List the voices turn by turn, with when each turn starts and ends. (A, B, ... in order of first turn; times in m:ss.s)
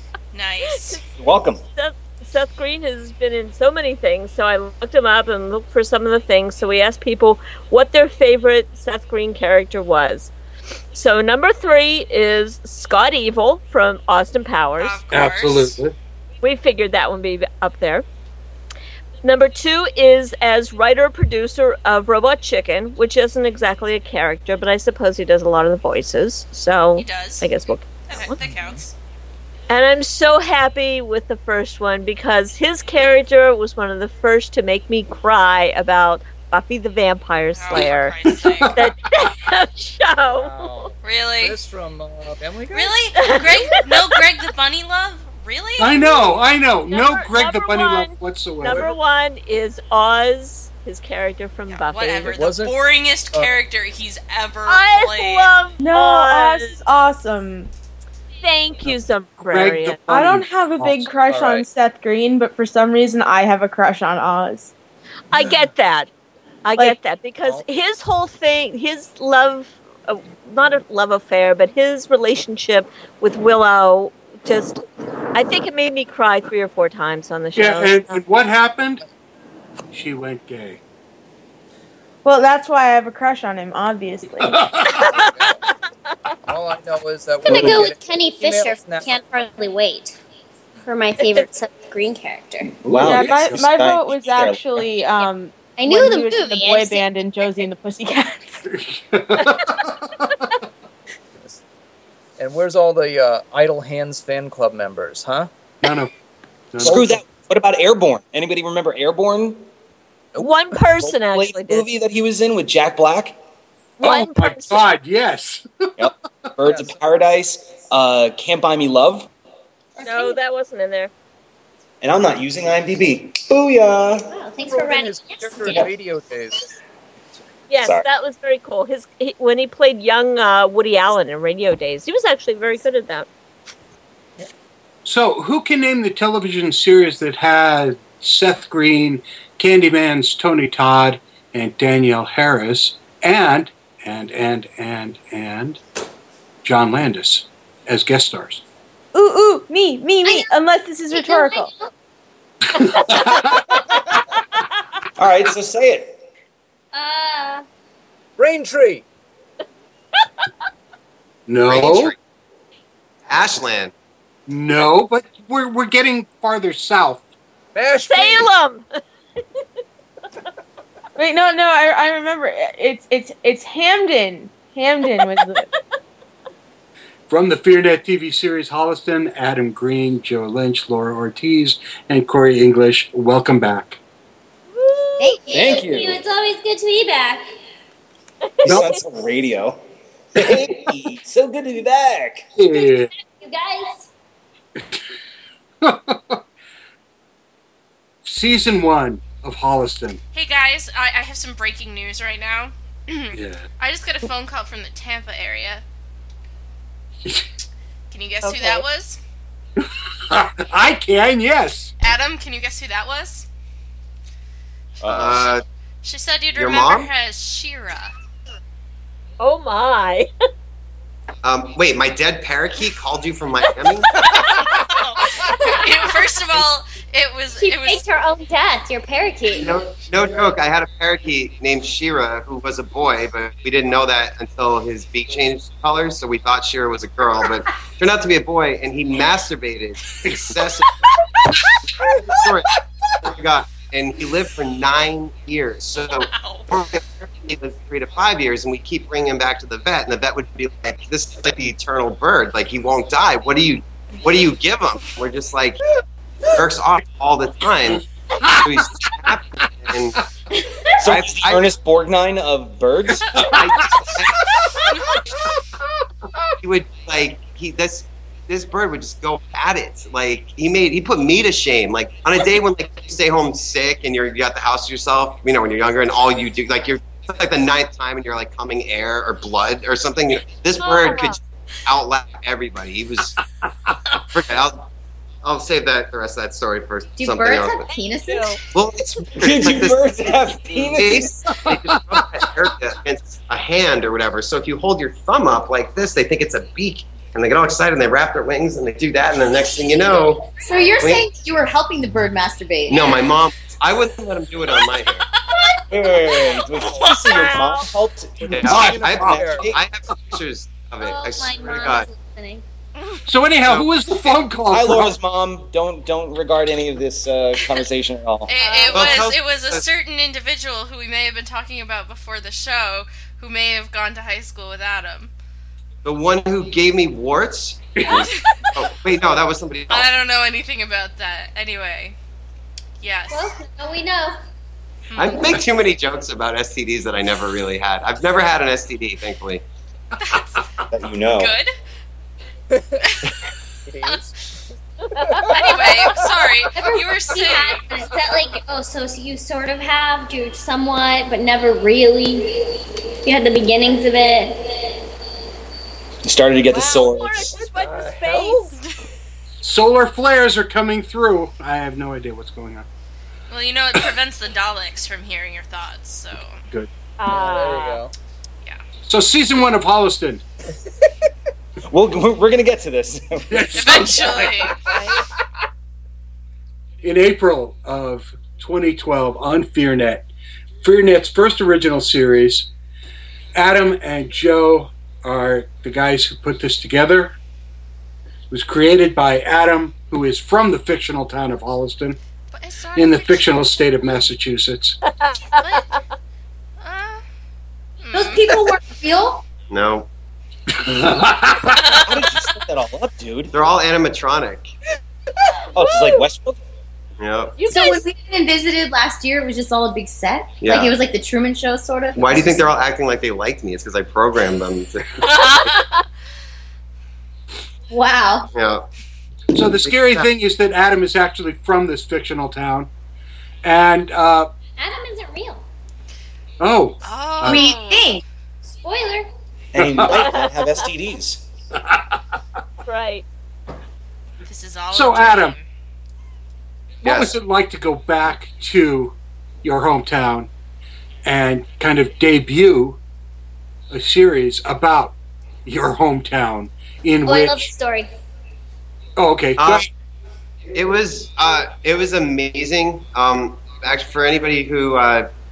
0:00.3-0:01.0 A
0:01.2-0:01.6 B
0:01.8-0:10.3 C
0:10.9-0:15.0 C
0:14.8-0:15.8 A
0:15.1-0:16.0 D
0:16.4-0:18.1 C
0:19.2-0:28.4 C
0:27.0-0:27.5 A
0:28.1-0:28.9 A
0:28.4-0:28.8 E
0:29.7-0:38.1 C
0:37.6-0:38.8 A
0:38.5-0:38.9 D
0:38.8-0:40.9 C
0:40.3-0:43.3 E
0:41.0-0:41.6 A
0:42.7-0:46.0 A
0:43.2-0:44.1 C
0:45.8-0:48.9 D
0:46.9-0:52.3 C
0:51.7-0:55.5 A
0:52.3-0:52.8 E
0:53.3-0:53.6 E
0:54.7-0:56.8 C
0:55.8-0:57.7 F
0:58.4-1:00.0 C
0:59.5-1:01.1 D
1:00.1-1:04.7 F
1:01.3-1:01.6 E
1:05.3-1:06.1 C
1:06.6-1:14.8 C
1:15.3-1:18.1 C
1:17.6-1:19.0 D
1:19.9-1:20.8 D
1:22.2-1:24.6 F
1:24.4-1:25.3 D
1:24.9-1:25.3 C
1:25.0-1:25.6 E
1:26.5-1:29.2 E
1:27.5-1:30.2 G
1:27.5-1:27.8 B
1:30.8-1:32.8 G
1:32.8-1:34.9 B
1:33.0-1:33.6 D
1:33.0-1:38.6 F
1:35.8-1:37.1 G
1:38.7-1:40.5 D
1:42.4-1:45.5 E
1:45.8-1:46.1 D
1:46.7-1:47.0 D
1:46.8-1:49.7 B
1:46.8-1:47.2 E
1:50.4-1:51.9 C
1:51.0-1:53.4 B
1:54.0-1:54.8 C
1:54.0-1:56.1 D
1:56.0-1:59.3 B
1:56.6-1:57.0 E
2:00.0-2:00.4 G
2:00.0-2:01.1 C
2:02.0-2:04.3 B
2:04.3-2:05.9 G
2:04.7-2:06.7 E
2:07.7-2:13.3 C
2:15.0-2:25.8 D
2:26.6-2:28.6 D
2:29.1-2:31.7 F
2:30.2-2:30.5 G
2:31.1-2:31.9 G
2:32.8-2:33.6 D
2:35.2-2:36.2 B
2:36.9-2:37.6 G
2:38.4-2:39.0 E
2:41.5-2:42.1 D
2:41.7-2:42.2 H
2:43.3-2:43.9 H
2:44.5-2:47.2 D
2:47.8-2:48.5 E
2:48.0-2:48.9 C
2:51.2-2:55.7 F
2:57.3-3:04.0 D
3:04.8-3:05.3 C
3:05.2-3:07.4 G
3:05.5-3:06.2 B
3:08.6-3:08.9 C
3:08.6-3:09.8 B
3:08.7-3:08.9 D
3:10.4-3:12.5 B
3:12.6-3:13.1 D
3:12.7-3:14.1 G
3:15.8-3:16.4 D
3:18.2-3:20.2 D
3:20.3-3:25.8 A
3:23.3-3:23.6 D
3:28.1-3:29.2 A
3:28.4-3:28.8 C
3:29.8-3:31.9 D
3:32.0-3:33.5 A
3:35.0-3:38.2 A
3:35.0-3:35.4 B
3:35.1-3:35.6 H
3:36.6-3:37.1 H
3:39.4-3:40.3 C
3:41.4-3:44.2 H
3:44.2-3:44.6 C
3:44.6-3:48.0 A
3:47.6-3:49.8 G
3:49.5-4:01.1 H
4:00.2-4:00.5 D
4:02.4-4:02.7 H
4:03.2-4:15.8 H
4:06.1-4:06.7 A
4:16.5-4:18.0 H
4:18.4-4:19.3 D
4:18.6-4:20.2 H
4:21.0-4:23.5 B
4:21.0-4:21.7 H
4:23.3-4:24.9 D
4:23.5-4:24.4 H
4:26.6-4:43.4 H
4:44.3-4:44.9 H
4:45.4-4:47.9 H
4:47.2-4:48.6 I
4:48.7-5:01.3 H
4:49.4-4:51.5 B
4:51.5-4:52.5 D
5:00.5-5:03.2 I
5:02.9-5:05.3 H
5:05.9-5:09.8 B
5:07.2-5:07.9 C
5:08.4-5:12.1 H
5:08.6-5:09.5 D
5:09.2-5:09.7 E
5:11.0-5:12.6 G
5:13.0-5:13.2 A
5:13.3-5:15.2 D
5:13.6-5:13.9 H
5:14.7-5:18.5 B
5:18.5-5:25.3 A
5:18.5-5:19.1 G
5:18.9-5:19.8 H
5:26.0-5:30.1 H
5:28.0-5:28.3 D
5:28.1-5:28.7 A
5:29.9-5:32.2 A
5:33.0-5:33.6 A
5:33.3-5:34.4 G
5:35.1-5:35.6 A
5:35.2-5:39.6 H
5:40.2-5:40.6 A
5:40.9-5:41.6 B
5:41.3-5:41.7 A
5:42.7-5:43.0 E
5:43.0-5:43.3 A
5:43.9-5:44.3 E
5:45.2-5:46.1 E
5:45.2-5:45.5 C
5:45.5-5:47.8 A
5:46.7-5:54.8 G
5:56.2-5:57.6 B
5:56.7-5:58.8 C
5:57.6-5:58.7 E
5:59.6-6:02.9 D
6:03.5-6:06.6 A
6:07.2-6:08.0 C
6:07.3-6:08.1 E
6:09.1-6:10.4 D
6:11.9-6:14.7 B
6:13.5-6:14.6 D
6:13.8-6:14.8 A
6:14.9-6:15.2 C
6:17.0-6:20.3 D
6:20.8-6:22.7 D
6:23.6-6:27.4 D
6:28.5-6:32.2 D
6:32.5-6:34.2 A
6:33.0-6:35.0 D
6:35.0-6:35.9 C
6:35.6-6:36.0 A
6:36.8-6:37.2 A
6:38.0-6:38.5 A
6:38.1-6:39.4 I
6:39.7-6:40.1 H
6:40.7-6:42.0 D
6:42.0-6:43.5 B
6:43.5-6:44.7 H
6:45.7-6:46.6 B
6:45.9-6:46.1 C
6:47.2-6:47.6 H
6:47.6-6:48.0 C
6:47.7-6:52.7 I
6:50.6-6:51.0 H
6:52.2-6:55.6 H
6:55.2-6:55.9 C
6:57.9-6:58.5 I
6:58.5-6:58.9 H
6:59.5-7:02.9 D
6:59.8-7:00.3 H
7:03.6-7:04.5 D
7:04.8-7:05.6 G
7:06.6-7:07.6 D
7:07.0-7:08.2 A
7:07.4-7:08.2 I
7:08.8-7:09.3 G
7:09.7-7:11.4 B
7:09.8-7:10.1 D
7:10.2-7:10.7 C
7:12.9-7:13.2 C
7:14.4-7:15.6 A
7:14.9-7:15.5 D
7:17.0-7:17.4 H
7:17.0-7:20.5 D
7:21.2-7:23.0 D
7:23.9-7:27.7 D
7:27.2-7:28.1 G
7:29.2-7:29.9 D
7:29.6-7:29.9 H
7:30.7-7:35.3 H